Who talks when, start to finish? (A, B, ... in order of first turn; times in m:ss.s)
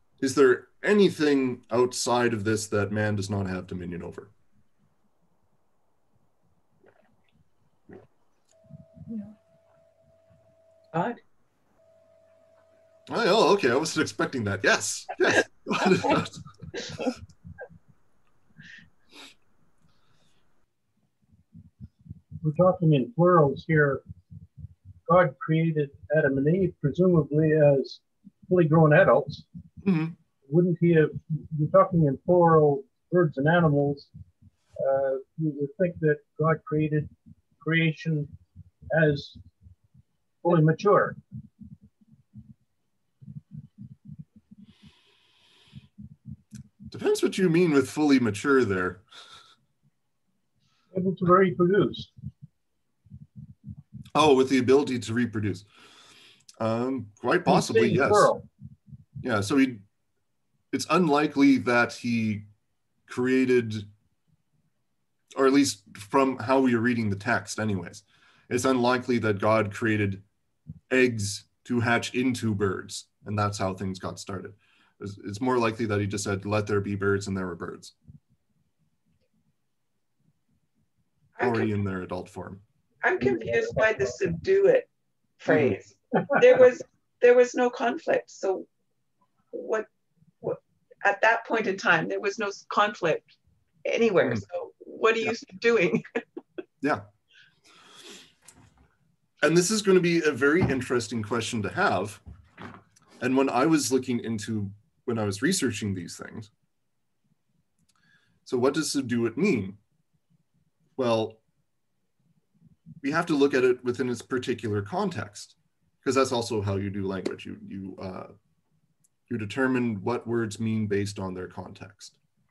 0:00.2-0:04.3 A
0:10.9-0:11.2 B
0:13.1-0:16.4 A
0:22.4-0:24.0 C
0:25.1-0:29.4 C
0:29.8-0:30.2 A
0:30.4-0:34.1 C
0:34.8-0:38.3 C
0:38.9-0:39.4 C
0:40.4-0:41.2 C
0:46.9-0:49.0 A
0:50.9-0:52.1 C
0:54.1-0:55.6 A
0:56.6-0:58.3 A
0:57.5-0:58.4 C
0:59.2-0:59.8 A
1:00.7-1:02.4 A
1:03.1-1:03.9 A
1:05.3-1:10.2 A
1:10.9-1:17.9 A
1:21.4-1:21.7 B
1:21.4-1:22.6 A
1:23.0-1:24.9 B
1:25.4-1:28.7 B
1:25.5-1:25.8 A
1:29.5-1:29.9 B
1:30.4-1:33.3 B
1:33.8-1:36.0 B
1:39.4-1:42.2 A
1:43.2-1:46.5 A
1:48.4-1:49.8 A
1:51.0-1:51.4 A
1:53.0-1:58.3 A
1:59.3-2:02.2 A